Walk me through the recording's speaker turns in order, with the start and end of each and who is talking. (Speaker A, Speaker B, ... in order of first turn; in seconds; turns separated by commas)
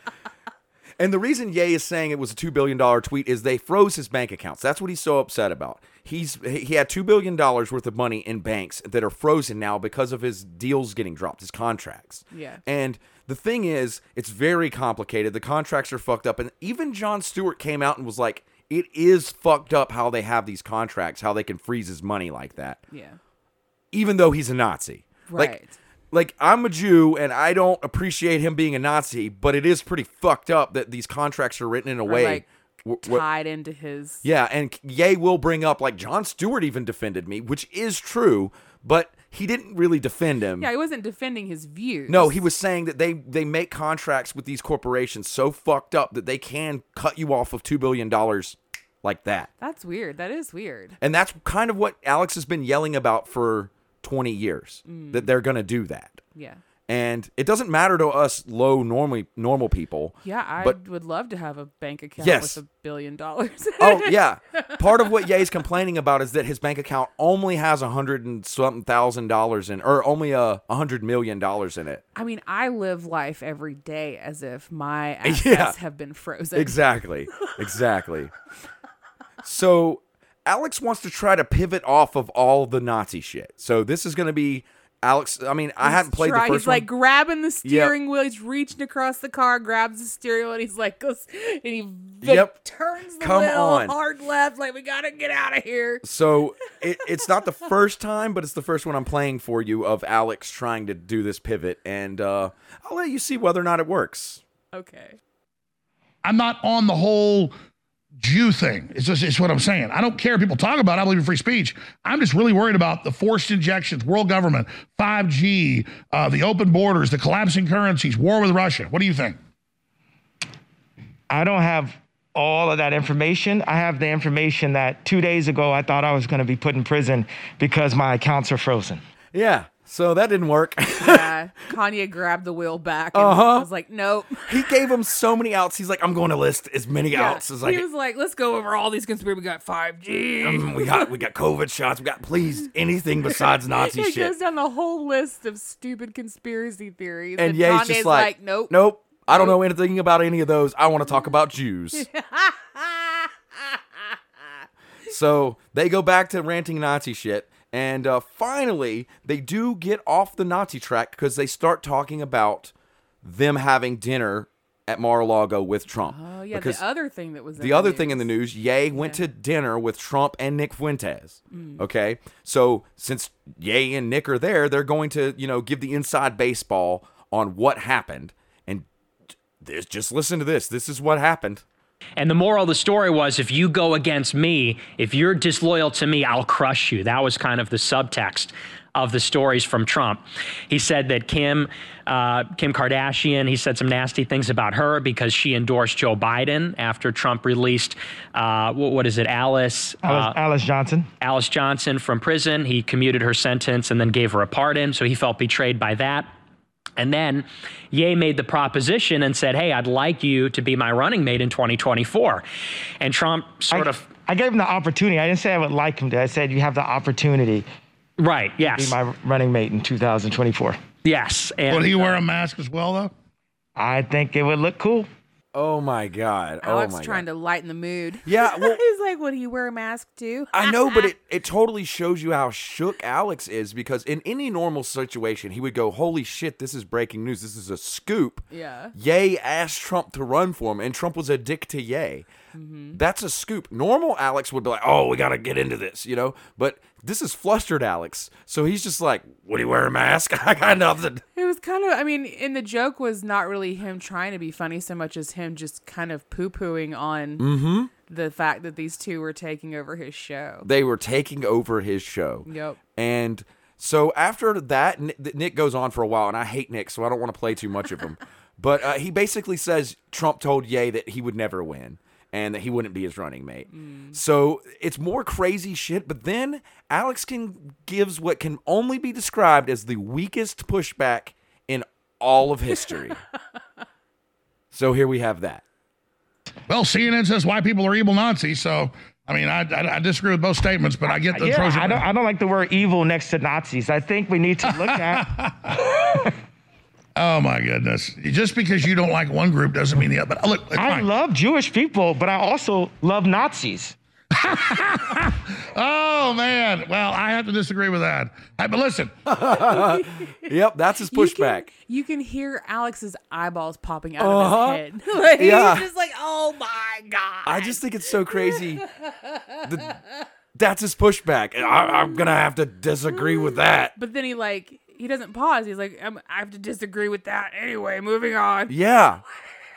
Speaker A: 1.0-22.8, Speaker B: 12.3-12.6, Speaker B: 22.9-23.2, Speaker A: 23.9-25.5, Speaker B: 25.3-25.8, Speaker A: 26.1-33.2, Speaker B: 32.0-32.4, Speaker B: 33.0-34.2, Speaker A: 34.2-40.7, Speaker B: 40.6-42.4, Speaker A: 42.1-49.5, Speaker B: 49.6-51.0, Speaker A: 51.0-56.2, Speaker B: 54.9-55.3, Speaker B: 56.3-56.6, Speaker A: 56.9-60.8, Speaker B: 60.2-65.1, Speaker A: 62.2-62.6, Speaker A: 63.8-72.0, Speaker B: 72.1-76.8, Speaker A: 75.2-75.8, Speaker A: 76.5-78.3, Speaker A: 79.4-86.9, Speaker B: 85.8-96.0, Speaker A: 87.6-87.9, Speaker A: 92.2-92.5, Speaker A: 93.2-93.9, Speaker A: 96.0-104.4, Speaker B: 104.7-105.2, Speaker C: 106.2-107.5, Speaker C: 108.2-119.4, Speaker D: 121.3-129.0, Speaker A: 129.3-131.3, Speaker B: 131.0-134.7, Speaker A: 133.1-133.7, Speaker A: 134.5-137.8, Speaker B: 137.1-141.1, Speaker A: 140.4-144.3, Speaker B: 143.3-148.7, Speaker A: 147.4-152.1, Speaker B: 151.9-153.3, Speaker A: 155.1-162.7, Speaker A: 163.2-166.8, Speaker B: 166.1-168.3, Speaker A: 167.6-178.8, Speaker B: 168.9-169.2, Speaker B: 171.5-171.8, Speaker A: 179.6-181.6, Speaker E: 182.2-200.3, Speaker D: 200.0-201.1, Speaker E: 201.2-206.3, Speaker E: 207.0-212.4, Speaker E: 213.0-214.0, Speaker D: 213.7-217.7, Speaker E: 218.2-218.9, Speaker D: 218.6-220.8, Speaker E: 221.0-222.1, Speaker C: 221.7-223.1, Speaker D: 223.8-225.1, Speaker A: 225.5-227.2, Speaker B: 226.6-231.1, Speaker A: 228.2-228.8, Speaker A: 230.5-242.3, Speaker B: 238.5-238.9, Speaker B: 242.5-243.0, Speaker A: 242.9-251.2, Speaker B: 251.3-257.5, Speaker A: 257.4-257.9, Speaker B: 258.1-260.7, Speaker A: 260.6-283.2, Speaker B: 262.4-262.8, Speaker B: 273.7-274.2, Speaker A: 284.7-285.6, Speaker C: 286.7-292.0, Speaker D: 291.1-296.3, Speaker C: 294.9-296.3, Speaker C: 297.1-301.1, Speaker D: 300.7-303.9, Speaker C: 304.3-309.1, Speaker A: 309.2-311.7, Speaker B: 309.5-310.5, Speaker B: 311.1-319.9, Speaker A: 314.2-314.8, Speaker A: 315.4-315.9, Speaker A: 317.4-318.8, Speaker A: 319.6-319.9, Speaker A: 320.5-323.9, Speaker B: 321.6-322.2, Speaker B: 323.1-328.7, Speaker A: 328.7-329.2